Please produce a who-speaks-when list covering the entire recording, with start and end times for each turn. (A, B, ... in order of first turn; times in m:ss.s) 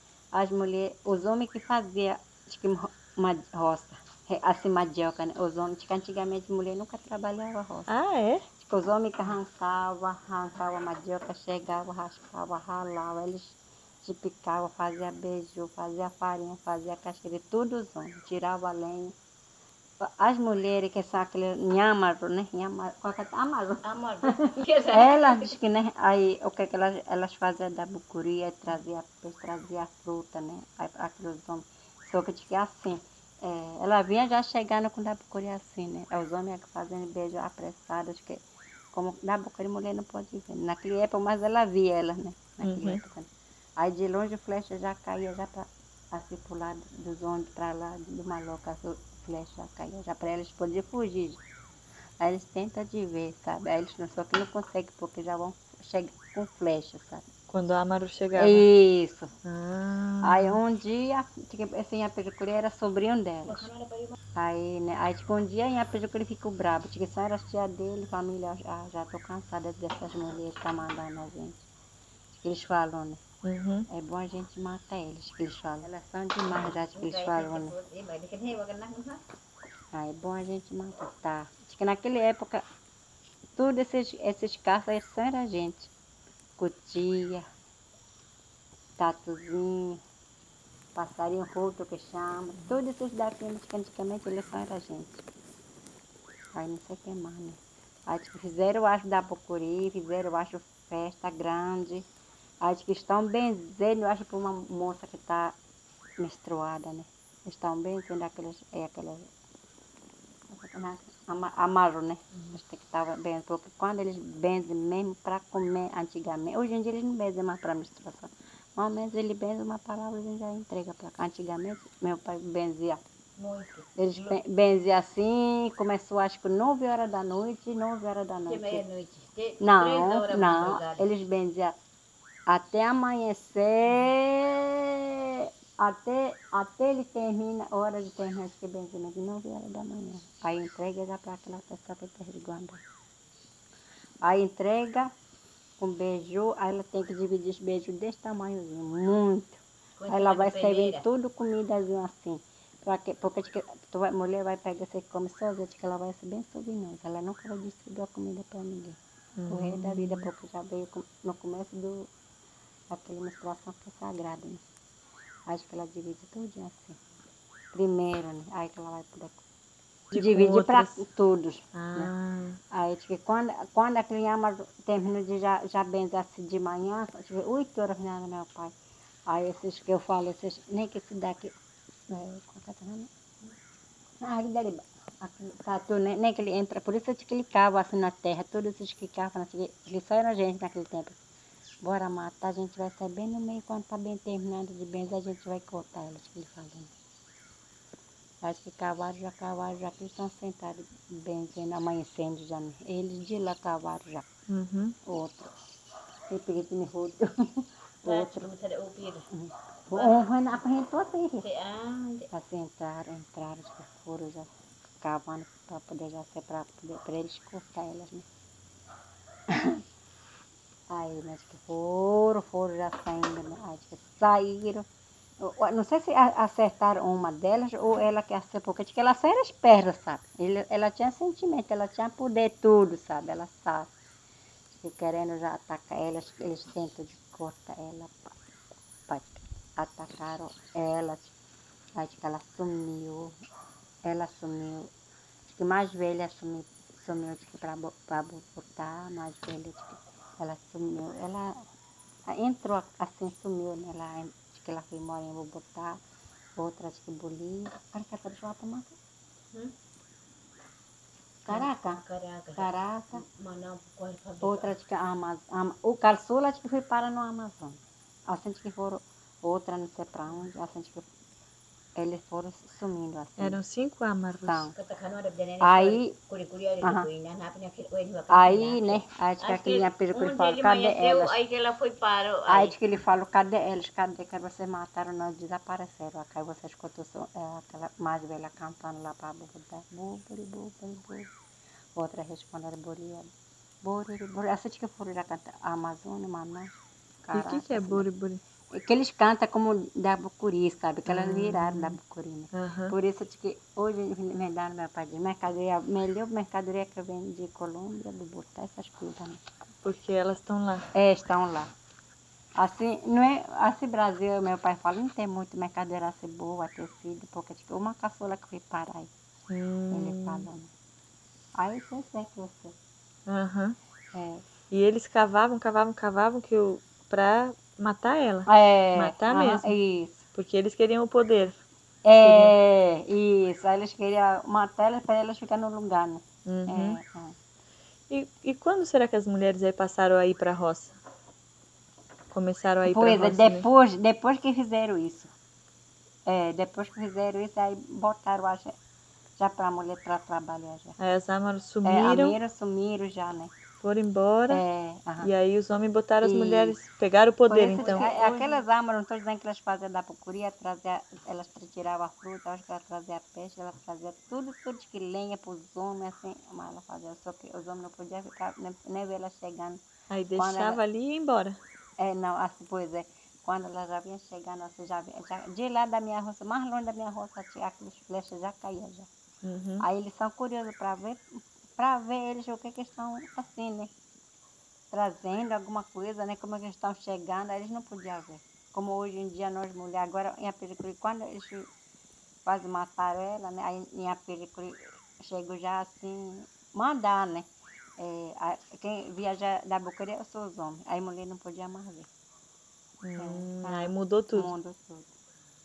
0:00.3-0:07.9 A
0:07.9-0:08.4 B
0:08.6-0:19.1 A
0:20.0-0:38.4 A
0:23.8-0:25.6 C
0:38.9-0:51.4 A
0:42.6-0:43.0 B
0:52.2-0:57.2 A
0:57.5-0:58.6 B
0:58.4-0:59.3 A
0:59.4-1:00.6 B
1:00.2-1:03.7 A
1:03.5-1:04.1 C
1:04.4-1:11.6 A
1:12.3-1:13.2 A
1:13.4-1:13.9 B
1:13.9-1:17.7 A
1:16.9-1:19.2 C
1:19.9-1:22.6 A
1:23.6-1:25.9 A
1:26.6-1:27.4 A
1:29.0-1:30.0 A
1:30.9-1:35.2 A
1:36.5-1:42.0 A
1:42.6-1:45.5 A
1:46.2-1:49.3 A
1:50.5-2:03.0 A
2:03.4-2:04.4 C
2:04.0-2:08.8 A
2:08.4-2:11.1 C
2:09.6-2:11.8 A
2:12.5-2:14.9 A
2:15.8-2:22.8 A
2:24.2-2:25.1 A
2:25.8-2:39.0 A
2:30.0-2:31.0 C
2:39.4-2:40.3 B
2:39.5-2:42.1 A
2:42.9-2:44.6 A
2:45.5-2:47.0 A
2:47.7-2:49.4 A
2:50.1-2:51.0 B
2:50.1-2:52.1 A
2:51.7-2:52.6 B
2:52.7-2:58.7 A
2:59.3-3:01.5 A
3:02.1-3:03.1 A
3:04.2-3:11.2 A
3:11.8-3:16.9 A
3:18.4-3:24.2 A
3:24.5-3:25.0 B
3:25.0-3:25.5 A
3:26.3-3:28.5 A
3:28.0-3:29.2 C
3:29.3-3:31.4 A
3:29.9-3:30.2 C
3:31.4-3:32.3 C
3:32.3-3:34.5 A
3:35.0-3:38.2 A
3:39.5-3:39.8 A
3:40.9-3:44.8 A
3:45.4-3:53.9 A
3:54.8-3:58.3 A
3:59.1-4:01.3 A
4:02.0-4:03.3 A
4:04.0-4:04.9 A
4:05.5-4:11.6 A
4:12.3-4:16.0 A
4:16.6-4:19.0 A
4:21.4-4:22.0 A
4:21.5-4:24.7 C
4:22.5-4:23.2 A
4:24.4-4:31.0 A
4:32.0-4:33.6 A
4:33.4-4:34.7 B
4:34.4-4:34.7 A
4:34.7-4:42.7 C
4:35.6-4:36.2 A
4:38.3-4:41.4 A
4:42.5-4:51.3 A
4:52.0-4:53.3 A
4:53.8-4:56.7 A
4:57.2-4:58.1 A
4:57.3-4:58.4 B
4:58.7-5:09.4 A
5:01.0-5:02.0 B
5:02.5-5:02.9 B
5:09.8-5:10.9 B
5:10.9-5:11.7 A
5:12.6-5:19.1 A
5:19.5-5:20.5 B
5:19.9-5:20.7 A
5:21.6-5:22.7 A
5:23.3-5:23.8 B
5:24.1-5:24.4 A
5:24.7-5:29.8 B
5:28.5-5:30.2 A
5:30.3-5:31.6 B
5:32.0-5:37.3 A
5:32.2-5:32.5 B
5:36.4-5:37.0 B
5:38.1-5:40.9 B
5:42.3-5:43.6 B
5:42.8-5:45.3 A
5:46.3-5:48.7 A
5:49.4-5:51.0 A
5:51.0-5:52.4 B
5:51.8-5:53.5 A
5:53.8-5:54.6 B
5:54.5-5:55.3 A
5:55.2-5:58.2 B
5:56.2-5:56.8 A
5:57.5-6:09.8 A
5:57.7-5:58.6 C
6:10.1-6:11.6 B
6:10.4-6:10.8 A
6:12.0-6:19.1 A
6:19.4-6:19.8 B
6:19.8-6:21.2 A
6:21.8-6:23.9 A
6:24.9-6:31.7 A
6:32.4-6:37.5 A
6:38.0-6:42.1 A
6:43.0-6:44.5 B
6:43.2-6:45.1 A